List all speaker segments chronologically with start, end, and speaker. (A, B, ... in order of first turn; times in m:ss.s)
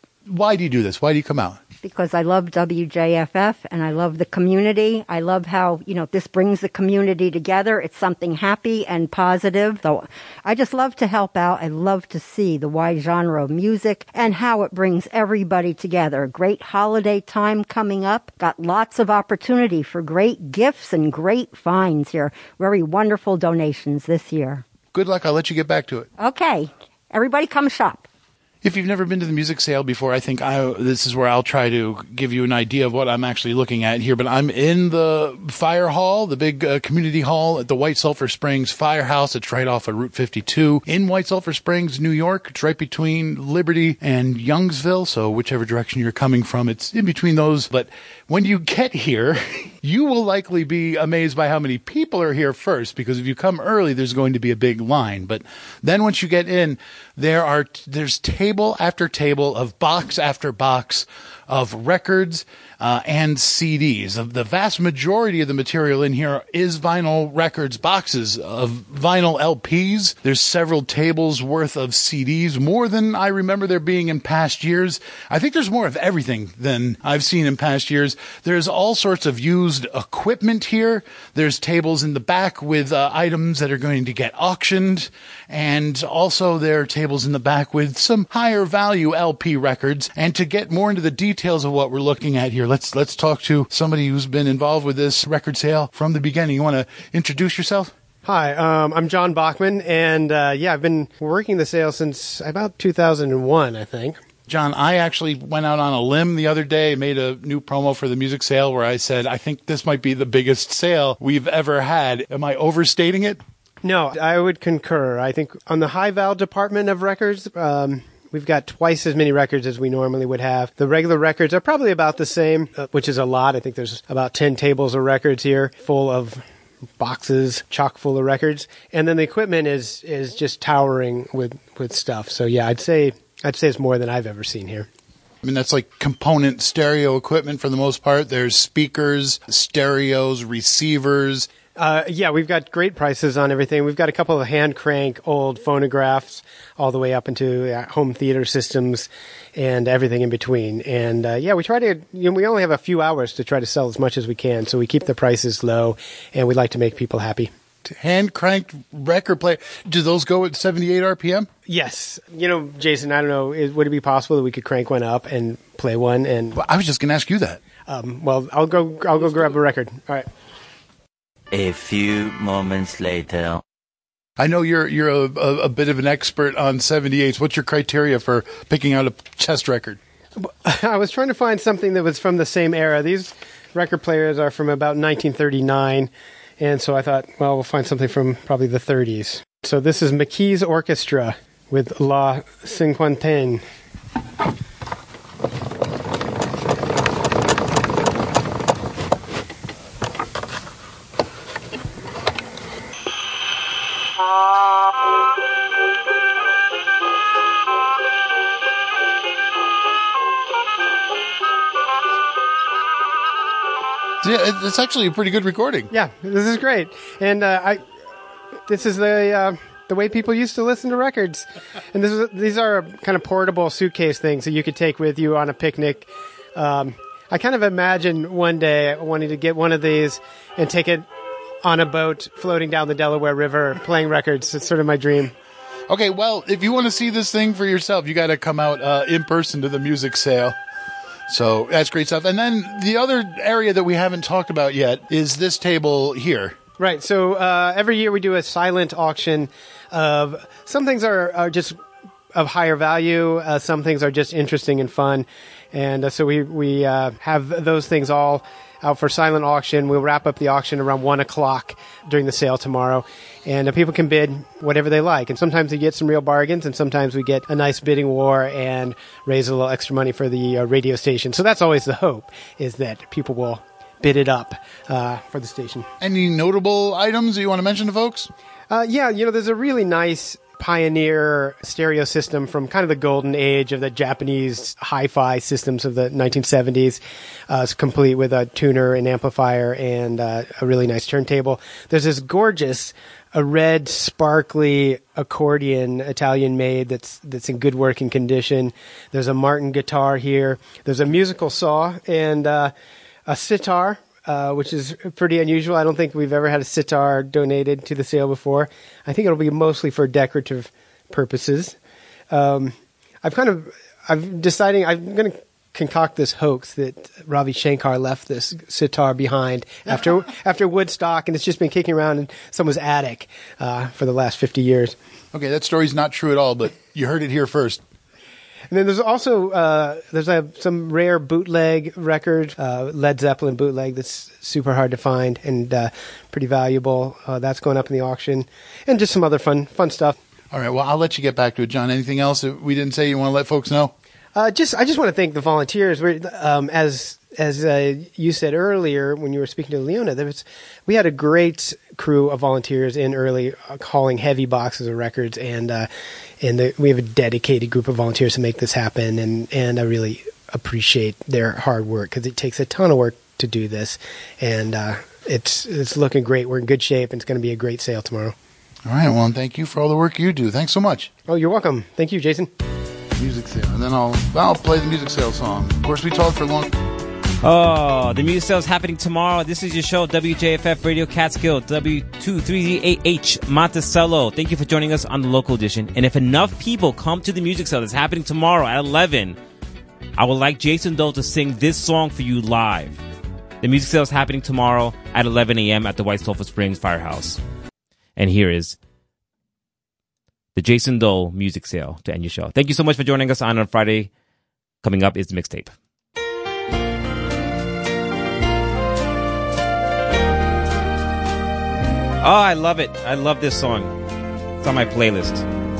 0:00.3-0:01.6 A
0:01.8-0:24.6 B
0:24.9-0:26.1 A
0:26.2-0:28.0 B
0:28.6-1:37.9 A
1:38.2-1:44.2 C
1:44.5-1:53.4 A
1:53.8-2:06.4 C
2:07.0-2:14.9 C
2:15.4-2:21.5 A
2:21.7-2:37.5 C
2:37.9-2:41.5 A
2:41.6-2:46.6 C
2:46.5-2:47.6 A
2:47.8-2:50.3 C
2:51.5-2:53.6 D
2:54.4-3:00.0 A
3:00.4-3:13.6 C
3:34.2-3:35.9 A
3:35.9-3:37.8 C
3:38.7-3:51.1 C
3:51.6-3:55.3 C
3:55.9-4:00.6 A
4:01.3-4:06.6 A
4:06.8-4:11.8 C
4:12.3-4:35.9 C
4:36.0-4:38.3 A
4:38.7-5:02.7 C
5:03.3-5:11.8 C
5:12.3-5:25.0 C
5:25.3-5:27.8 A
5:28.7-5:40.2 C
5:40.5-5:43.9 A
5:44.3-5:55.9 C
5:56.4-6:08.3 C
6:08.8-6:11.1 A
6:11.3-6:12.5 C
6:13.2-6:16.7 A
6:17.4-6:29.4 E
6:30.2-6:33.0 E
6:33.6-6:37.4 E
6:38.2-6:38.8 E
6:40.6-6:44.1 E
6:44.8-6:45.7 E
6:52.2-6:54.0 E
6:54.6-6:55.4 E